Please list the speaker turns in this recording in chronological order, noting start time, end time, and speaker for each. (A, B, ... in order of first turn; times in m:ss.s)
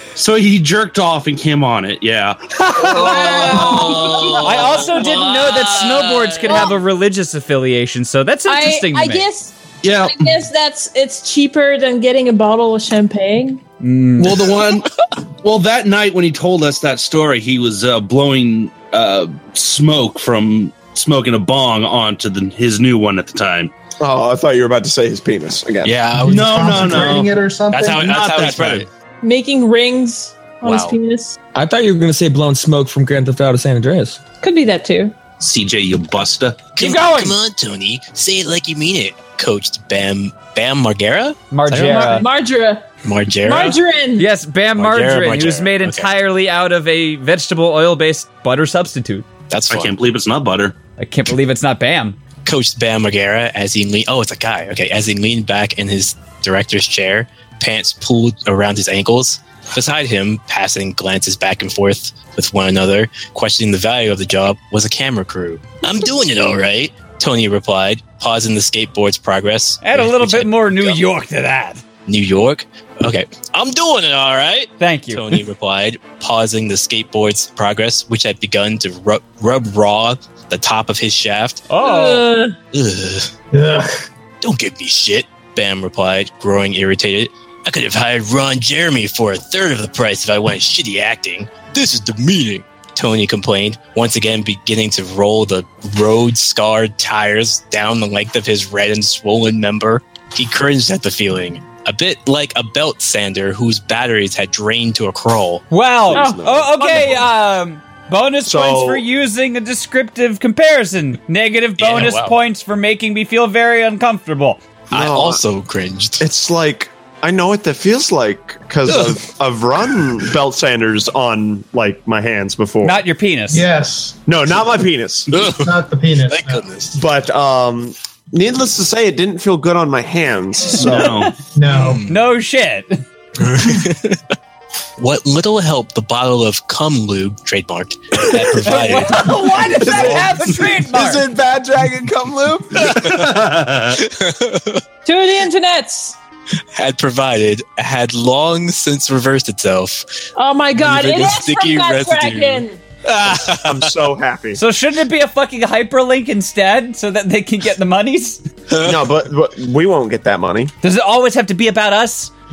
0:00.2-0:04.7 A
0:03.0-0:04.4 B
0:04.3-0:09.2 C
0:05.0-0:06.1 D
0:06.5-0:06.8 B
0:08.5-0:13.6 B
0:09.8-0:10.3 A
0:13.8-0:14.5 C
0:14.2-0:14.9 A
0:15.4-0:23.7 A
0:24.0-0:26.0 E
0:25.8-0:27.0 D
0:25.9-0:27.3 A
0:26.2-0:28.5 F
0:27.7-0:28.9 D
0:27.9-0:28.9 A
0:29.2-0:31.4 B
0:30.6-0:31.0 D
0:31.6-0:34.2 G
0:34.4-0:35.2 B
0:35.4-0:36.7 A
0:36.8-0:42.2 D
0:36.8-0:37.4 C
0:41.5-0:42.3 C
0:41.7-0:42.9 B
0:43.0-0:43.8 D
0:43.4-0:44.3 B
0:44.2-0:49.3 C
0:44.8-0:46.1 D
0:49.5-0:49.9 D
0:49.7-0:50.8 A
0:51.0-0:52.2 C
0:52.4-1:11.0 D
1:09.8-1:11.8 C
1:12.1-1:21.7 D
1:14.8-1:15.2 C
1:21.7-1:22.3 C
1:21.8-1:22.6 B
1:22.7-1:23.3 D
1:23.5-1:24.0 F
1:24.4-1:45.6 D
1:45.7-1:54.6 C
1:46.1-1:47.2 E
1:46.1-1:47.1 B
1:48.4-1:49.0 E
1:51.8-1:52.4 D
1:54.9-1:55.4 E
1:54.9-1:56.2 D
1:56.2-2:03.0 E
2:02.8-2:03.7 C
2:03.5-2:04.2 F
2:04.3-2:05.5 E
2:05.5-2:06.7 F
2:06.3-2:06.9 D
2:07.0-2:11.2 E
2:10.9-2:11.3 A
2:11.0-2:11.3 C
2:11.5-2:12.0 F
2:11.8-2:12.1 D
2:12.1-2:13.0 C
2:13.4-2:14.2 D
2:15.0-2:19.3 D
2:18.6-2:21.2 C
2:19.4-2:23.2 E
2:22.8-2:24.8 D
2:25.0-2:26.2 B
2:26.8-2:30.1 D
2:30.4-2:32.8 B
2:30.8-2:33.9 D
2:33.5-2:34.6 E
2:34.6-2:38.4 C
2:38.8-2:40.7 E
2:40.8-2:42.3 C